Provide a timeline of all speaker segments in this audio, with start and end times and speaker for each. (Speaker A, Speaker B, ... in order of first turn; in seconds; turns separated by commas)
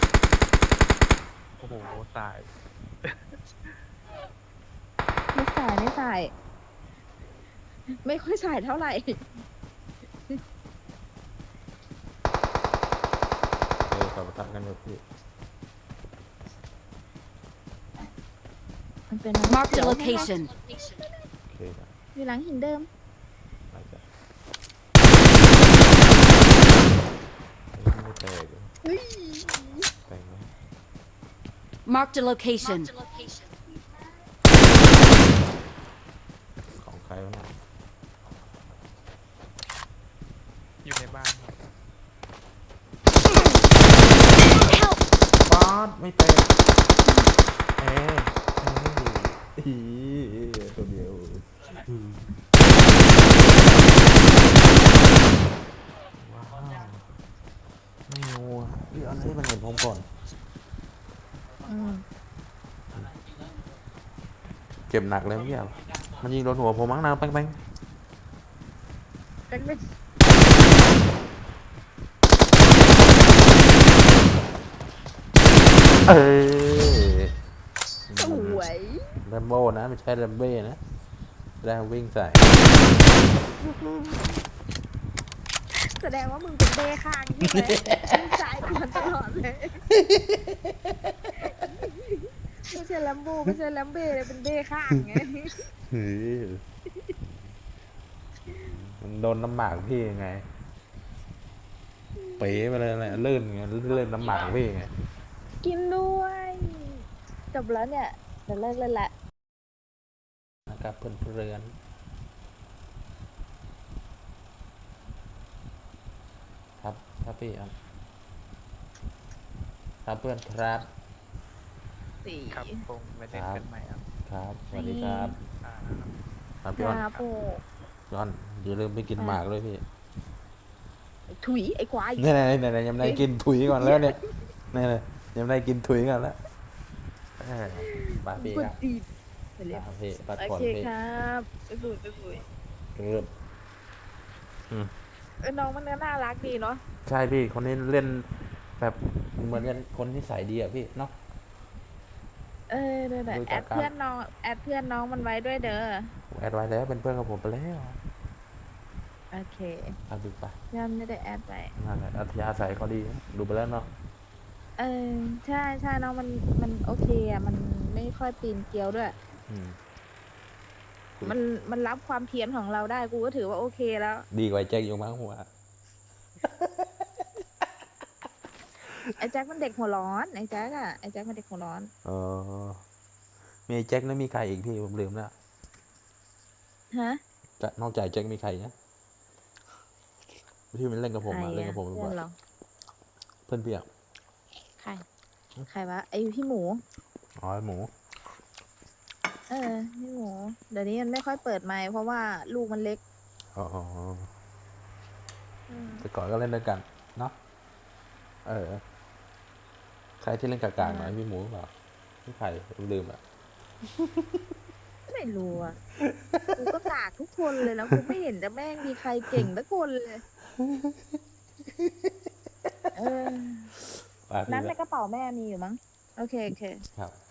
Speaker A: 1.6-2.5, Speaker A: 3.0-3.8, Speaker B: 5.3-6.3, Speaker B: 8.0-9.2, Speaker C: 13.8-15.0, Speaker B: 19.1-21.1, Speaker D: 19.5-20.5, Speaker C: 21.5-21.9, Speaker B: 22.1-22.9, Speaker C: 23.7-24.0, Speaker C: 27.7-28.7, Speaker B: 28.9-29.9, Speaker C: 30.1-30.5, Speaker D: 31.9-32.9, Speaker C: 36.8-37.5, Speaker A: 40.8-41.6, Speaker D: 44.7-45.0, Speaker C: 45.4-46.5, Speaker C: 47.8-52.3, Speaker C: 56.2-57.0, Speaker C: 58.1-60.1, Speaker B: 61.7-62.0, Speaker C: 64.9-67.6, Speaker B: 69.5-69.9, Speaker C: 76.1-77.3, Speaker C: 78.1-78.7, Speaker B: 78.2-79.1, Speaker C: 79.2-80.8, Speaker C: 81.6-82.6, Speaker C: 83.6-84.3, Speaker B: 85.8-89.8, Speaker C: 87.4-88.2, Speaker C: 90.0-90.5, Speaker B: 91.4-95.6, Speaker C: 95.9-96.6, Speaker C: 98.5-100.5, Speaker B: 102.2-102.5, Speaker C: 102.4-104.9, Speaker B: 105.6-109.1, Speaker C: 110.7-111.7, Speaker C: 116.8-117.7, Speaker C: 120.0-120.9, Speaker B: 122.2-122.8, Speaker A: 122.5-124.0, Speaker C: 123.3-123.7, Speaker C: 124.3-125.4, Speaker B: 124.7-125.3, Speaker A: 125.6-126.1, Speaker C: 126.6-127.1, Speaker B: 126.8-127.6, Speaker C: 128.1-129.8, Speaker B: 131.4-132.3, Speaker C: 132.2-134.2, Speaker B: 133.0-134.2, Speaker C: 134.7-136.4, Speaker C: 137.4-138.8, Speaker B: 137.8-139.8, Speaker C: 139.7-140.9, Speaker B: 140.4-142.4, Speaker C: 143.0-143.3, Speaker B: 145.4-146.8, Speaker C: 147.1-151.1, Speaker B: 152.7-156.1, Speaker C: 153.3-153.9, Speaker C: 156.3-158.0, Speaker B: 159.3-159.9, Speaker C: 160.1-160.6, Speaker B: 160.7-161.7, Speaker C: 161.8-163.9, Speaker B: 164.8-169.2, Speaker C: 169.5-169.8, Speaker B: 171.2-174.3, Speaker C: 174.3-175.5, Speaker C: 176.4-177.2, Speaker B: 179.2-181.9, Speaker C: 182.1-182.8, Speaker C: 183.7-185.3, Speaker B: 186.9-187.2, Speaker C: 187.6-188.7, Speaker C: 190.7-192.2, Speaker B: 191.3-192.3, Speaker C: 193.5-193.9, Speaker B: 194.8-195.0, Speaker B: 195.7-196.8, Speaker C: 197.4-197.9, Speaker B: 199.5-203.0, Speaker C: 203.6-204.3, Speaker B: 205.7-206.1, Speaker C: 206.0-207.3, Speaker C: 208.5-208.8, Speaker C: 210.2-211.7, Speaker B: 210.8-211.2, Speaker C: 212.2-213.2, Speaker B: 215.1-215.8, Speaker B: 216.6-220.2, Speaker B: 222.9-223.7, Speaker C: 224.3-224.8, Speaker B: 224.5-226.8